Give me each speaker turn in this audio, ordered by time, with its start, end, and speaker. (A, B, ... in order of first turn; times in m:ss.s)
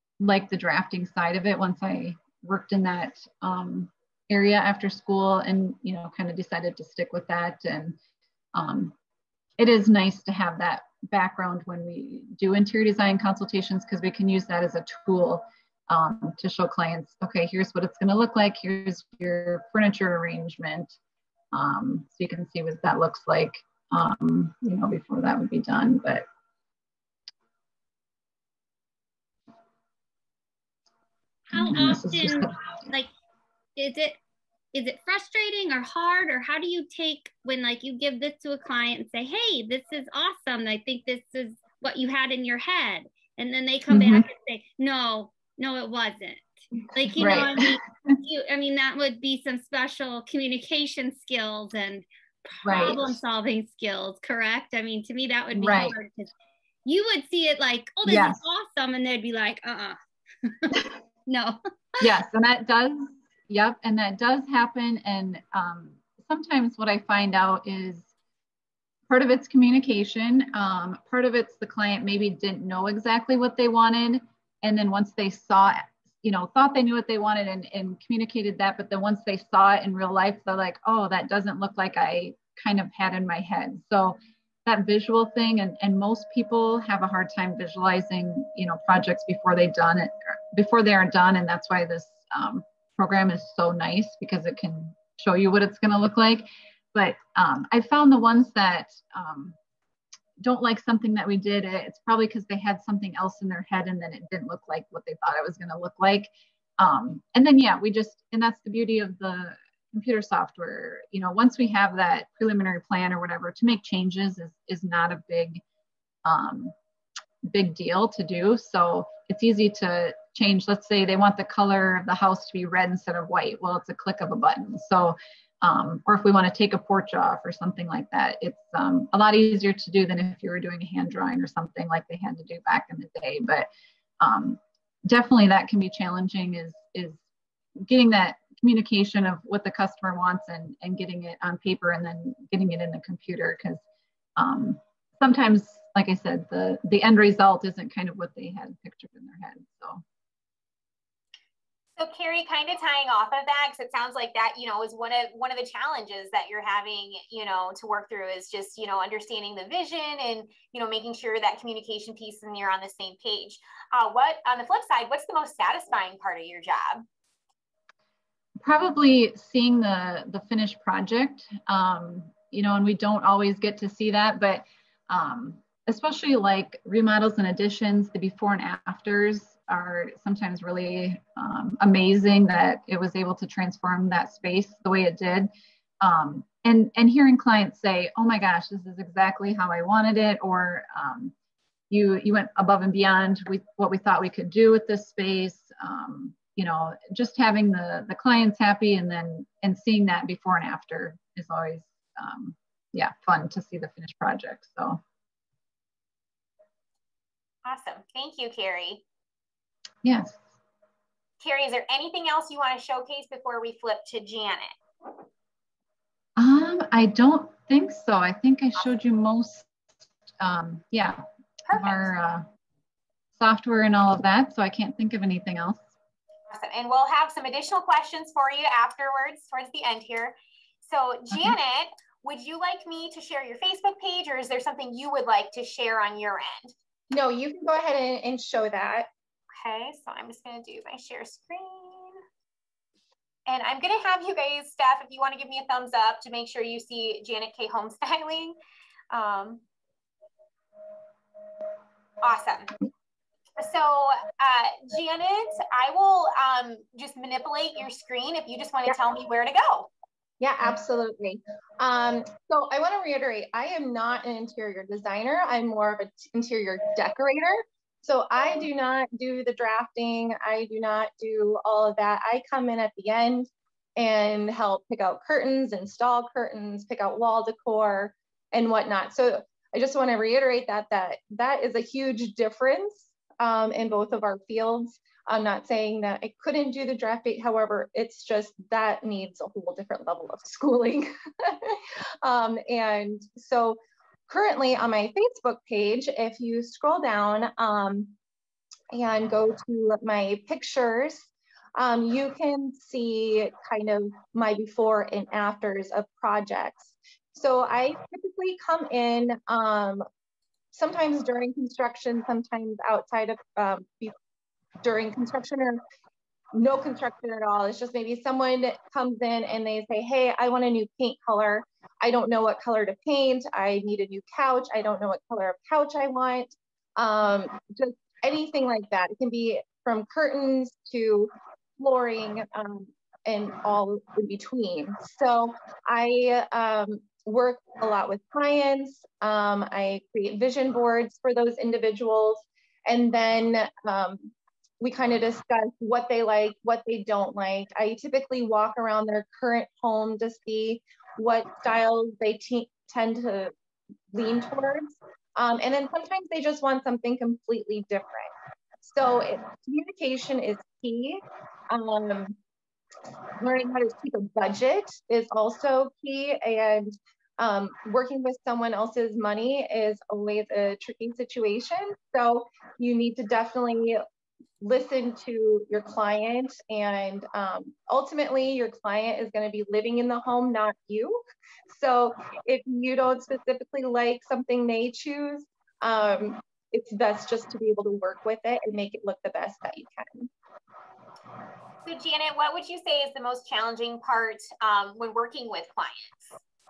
0:00.2-0:08.0 A
0:08.5-0:09.0 A
0:09.6-0:21.0 A
0:21.5-0:26.2 A
0:31.5-0:33.1 B
0:31.5-0:32.9 A
0:33.8-0:34.2 B
0:34.7-0:56.3 B
0:43.9-0:44.2 A
0:47.1-0:48.1 A
0:52.6-0:53.2 A
0:55.5-0:56.0 A
0:56.8-1:00.8 B
0:58.0-0:58.4 A
1:01.3-1:01.6 B
1:02.0-1:08.1 A
1:09.1-1:39.6 A
1:40.4-1:55.6 A
1:56.2-1:56.7 A
1:57.4-2:13.7 A
2:14.2-2:17.2 A
2:17.8-2:23.8 A
2:24.4-2:30.0 A
2:32.0-2:47.0 C
2:48.6-3:11.3 A
3:11.9-3:25.0 A
3:27.6-3:29.0 C
3:30.0-3:30.4 A
3:31.4-3:34.8 C
3:36.4-3:39.7 A
3:40.4-3:42.5 A
3:41.7-3:42.1 C
3:43.4-3:45.9 A
3:46.5-3:56.7 C
3:57.1-3:59.1 D
3:59.6-4:02.2 C
4:03.5-4:08.5 C
4:09.1-4:09.6 C
4:12.2-4:12.7 C
4:13.6-4:19.9 C
4:20.4-4:58.1 D
4:58.9-5:10.0 D
5:10.7-5:14.1 D
5:14.8-5:15.8 D
5:16.5-5:53.5 D
5:54.1-6:02.4 D
6:03.4-6:14.0 D
6:14.6-6:30.3 D
6:31.8-6:36.4 C